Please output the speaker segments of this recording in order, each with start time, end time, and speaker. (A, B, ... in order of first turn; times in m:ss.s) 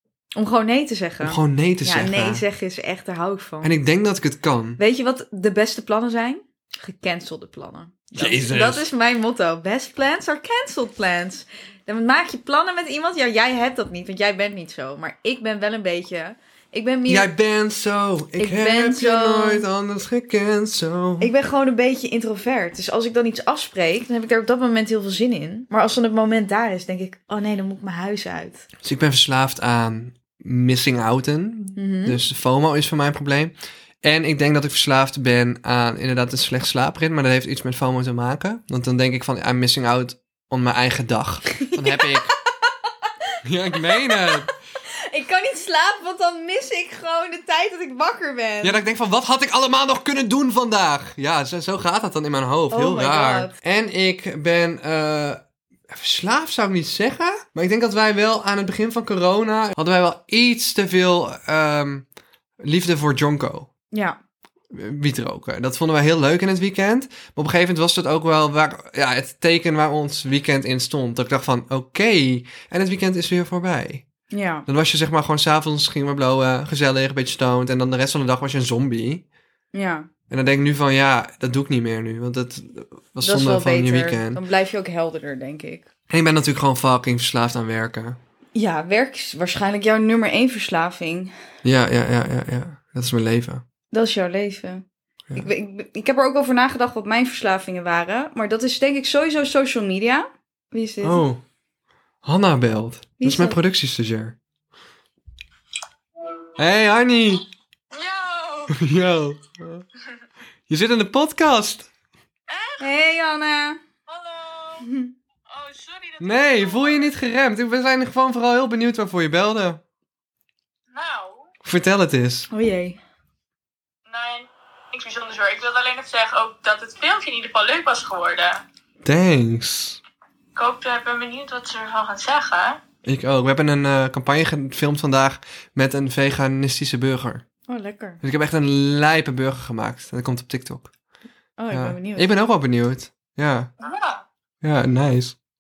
0:00.3-0:03.7 A
0:01.2-0:02.4 B
0:03.6-0:04.8 B
0:04.8-0:17.3 A
0:08.1-0:08.9 B
0:17.1-0:21.3 B
0:18.4-0:19.6 A
0:21.2-0:28.6 A
0:28.8-0:42.3 B
0:31.8-0:32.2 A
0:41.6-0:48.8 A
0:43.4-0:44.5 B
0:48.6-1:02.0 B
0:52.7-0:53.5 A
1:02.6-1:03.7 B
1:03.9-1:04.2 A
1:04.7-1:14.0 B
1:14.3-1:14.6 A
1:14.6-1:19.2 B
1:19.7-1:20.1 A
1:20.3-1:24.4 B
1:23.2-1:25.9 A
1:26.1-1:28.2 B
1:28.5-1:31.3 A
1:31.6-1:33.6 B
1:33.9-1:34.8 A
1:35.3-1:41.2 A
1:41.0-1:41.4 B
1:42.2-1:44.4 B
1:43.2-1:43.6 A
1:46.6-1:47.4 B
1:47.9-1:48.8 C
1:48.7-1:49.8 B
1:50.7-1:51.9 B
1:52.5-1:52.9 C
1:52.8-1:53.8 A
1:54.1-1:54.9 C
1:54.8-1:55.1 A
1:55.5-1:57.1 C
1:56.2-1:59.8 B
2:00.9-2:01.5 C
2:01.6-2:02.5 B
2:02.5-2:03.0 A
2:04.1-2:08.6 C
2:09.0-2:10.0 B
2:10.6-2:12.8 C
2:13.0-2:17.4 B
2:17.7-2:18.2 A
2:18.2-2:20.9 B
2:21.6-2:22.3 A
2:21.7-2:23.7 B
2:23.8-2:24.2 C
2:24.6-2:25.4 B